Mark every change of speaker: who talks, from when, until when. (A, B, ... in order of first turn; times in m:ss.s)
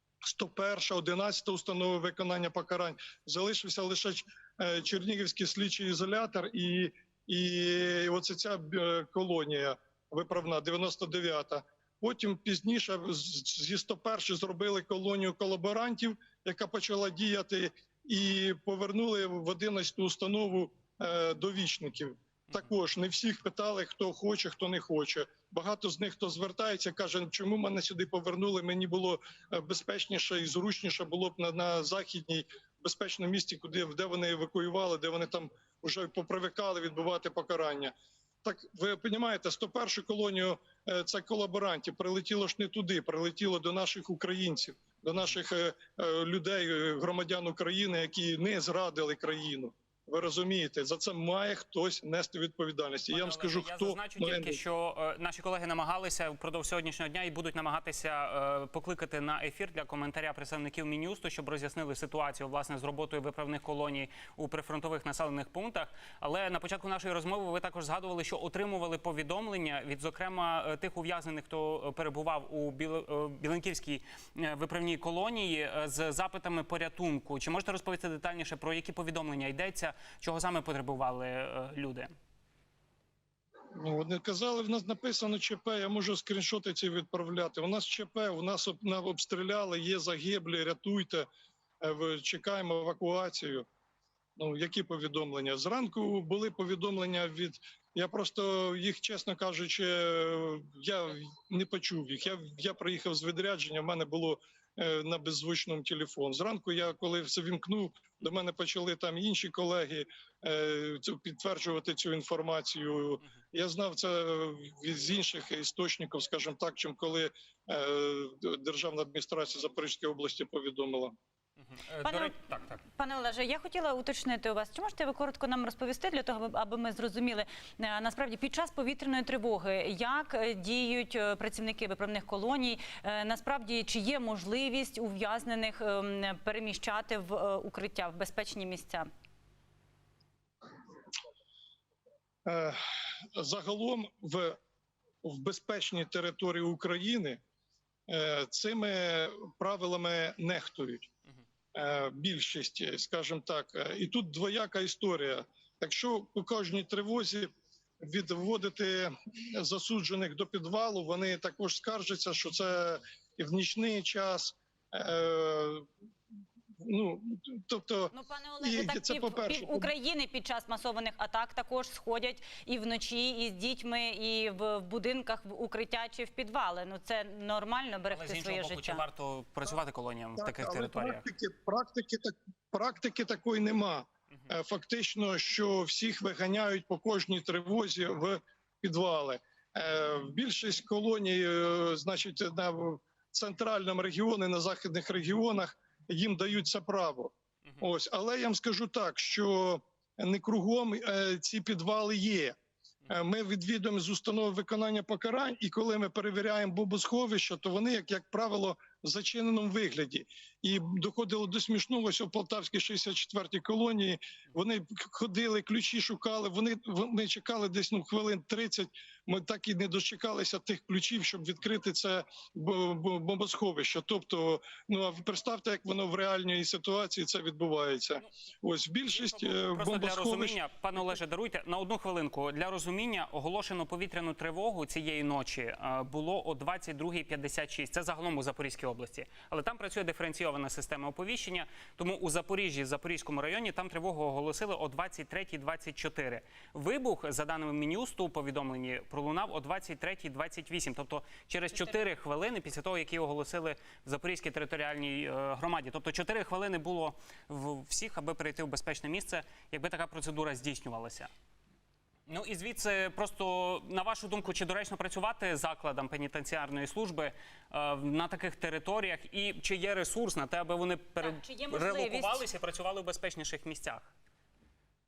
0:00.2-0:37.9 A
0:38.4-0:54.6 A
0:53.1-1:22.1 B
1:23.7-1:31.3 A
1:31.8-1:33.7 A
1:34.4-2:01.1 A
2:01.6-2:02.8 B
2:02.0-2:19.1 C
2:22.4-2:24.6 A
2:25.2-2:27.4 A
2:28.1-2:31.1 A
2:31.7-2:45.8 A
2:46.8-2:49.9 A
2:48.1-2:59.0 C
2:58.1-3:01.2 B
3:00.4-3:50.6 A
3:49.1-4:21.3 B
4:22.3-4:34.1 B
4:31.2-4:32.4 C